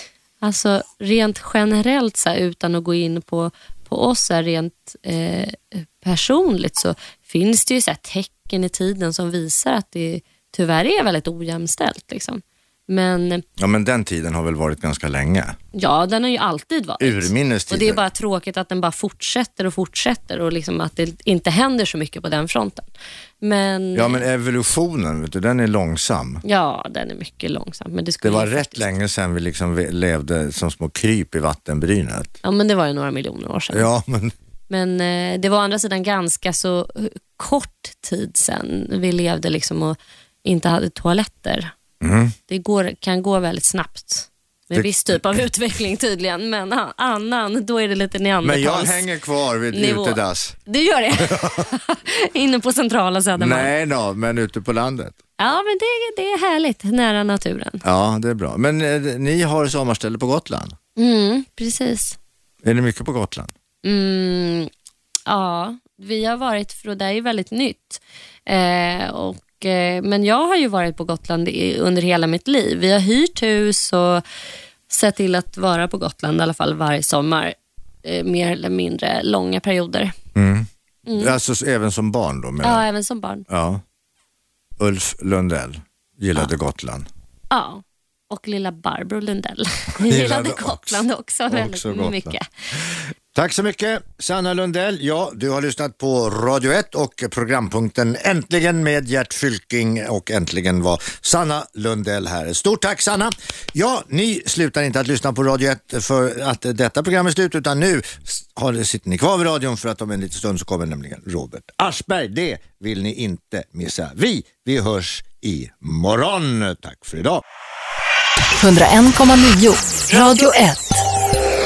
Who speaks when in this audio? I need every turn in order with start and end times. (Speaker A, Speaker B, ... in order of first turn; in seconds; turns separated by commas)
Speaker A: 0.4-13.4, Speaker B: 13.6-15.6, Speaker A: 15.8-22.9, Speaker B: 17.0-18.0, Speaker A: 23.4-24.2, Speaker B: 23.9-26.4, Speaker A: 26.4-28.9, Speaker B: 28.2-32.4, Speaker A: 32.4-33.9, Speaker B: 33.7-34.4, Speaker A: 34.7-41.7, Speaker B: 42.0-42.4, Speaker A: 42.5-49.1, Speaker B: 44.7-45.2, Speaker B: 48.4-50.6, Speaker A: 49.7-53.7, Speaker B: 51.2-51.7, Speaker B: 53.4-55.2, Speaker A: 55.4-57.8, Speaker B: 57.8-60.8, Speaker A: 61.0-62.2, Speaker B: 62.6-63.5, Speaker A: 63.8-64.7, Speaker A: 65.3-74.2, Speaker A: 74.9-80.1, Speaker B: 80.3-82.8, Speaker A: 81.1-81.3, Speaker A: 82.6-83.5, Speaker B: 83.5-83.8, Speaker B: 84.8-87.1, Speaker A: 87.5-92.5, Speaker B: 90.0-117.4, Speaker C: 118.6-121.1